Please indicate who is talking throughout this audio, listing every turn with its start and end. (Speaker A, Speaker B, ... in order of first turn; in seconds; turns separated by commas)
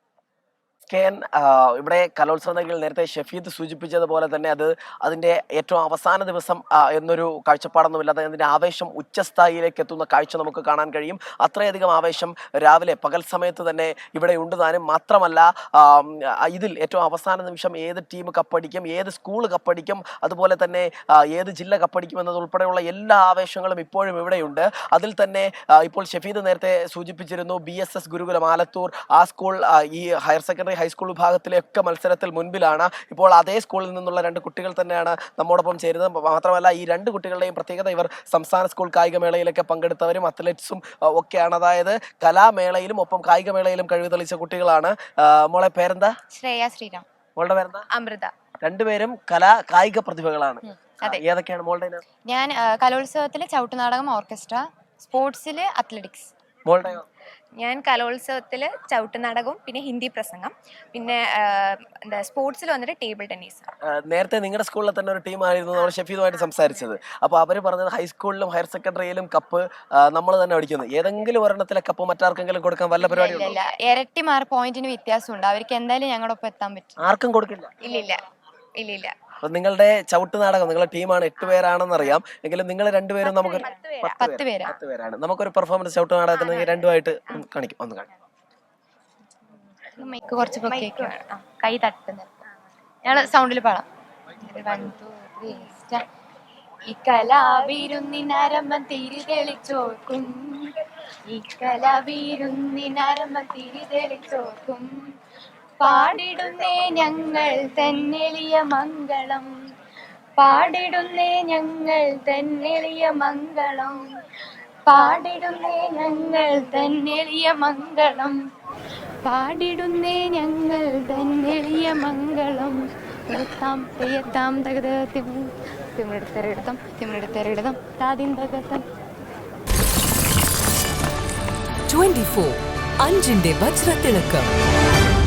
Speaker A: 0.9-46.1, Speaker B: 46.3-47.0, Speaker A: 47.4-47.9, Speaker C: 47.9-48.3, Speaker A: 48.6-52.0, Speaker B: 52.2-56.3, Speaker A: 56.6-57.0, Speaker C: 57.6-63.7, Speaker A: 63.9-73.5, Speaker B: 73.0-77.1, Speaker A: 77.0-77.7, Speaker C: 77.8-78.2, Speaker C: 78.8-79.1, Speaker A: 79.4-88.1, Speaker C: 83.2-84.2, Speaker B: 84.1-84.8, Speaker C: 86.3-86.8, Speaker B: 90.0-92.2, Speaker C: 90.5-92.3, Speaker B: 93.0-93.8, Speaker B: 94.4-96.0, Speaker B: 96.9-100.5, Speaker C: 97.5-98.0, Speaker B: 101.3-104.9, Speaker C: 101.6-102.5, Speaker C: 103.2-104.5, Speaker B: 105.8-109.5, Speaker C: 105.8-107.4, Speaker B: 110.4-114.0, Speaker B: 114.9-118.4, Speaker B: 119.2-128.8, Speaker D: 131.9-134.5